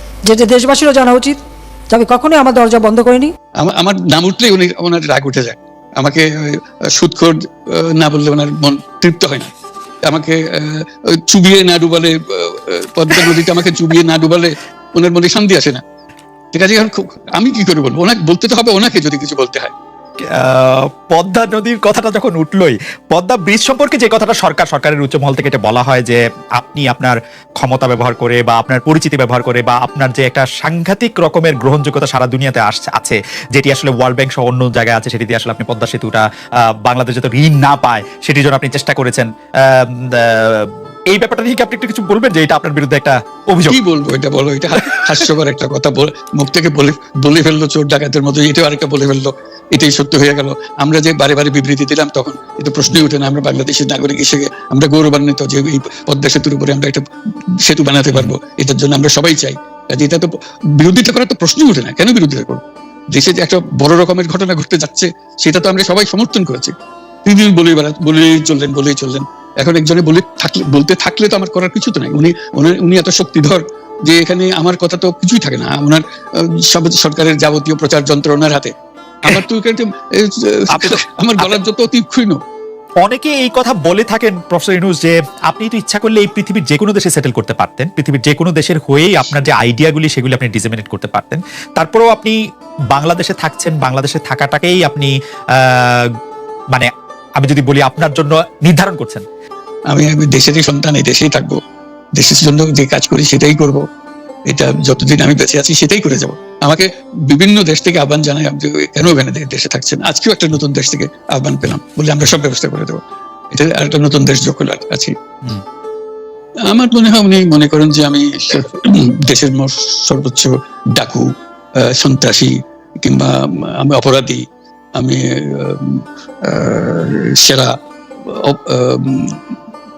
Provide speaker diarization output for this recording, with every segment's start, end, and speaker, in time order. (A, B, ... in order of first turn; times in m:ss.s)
0:00.3-0:01.4 A
0:01.9-0:03.3 A
0:03.6-0:09.5 B
0:10.0-0:15.8 B
0:16.5-0:19.7 B
0:20.3-0:36.2 C
0:36.8-0:43.8 C
0:43.7-0:57.0 B
0:57.6-1:06.7 B
1:07.2-1:18.7 B
1:19.2-1:22.4 B
1:20.7-1:21.6 C
1:23.0-1:32.4 C
1:32.9-1:36.1 C
1:36.7-1:39.2 C
1:39.9-1:41.6 B
1:42.2-1:43.8 B
1:44.5-1:53.0 B
1:53.5-1:55.1 B
1:56.7-2:04.4 B
2:05.0-2:07.7 B
2:08.2-2:09.4 B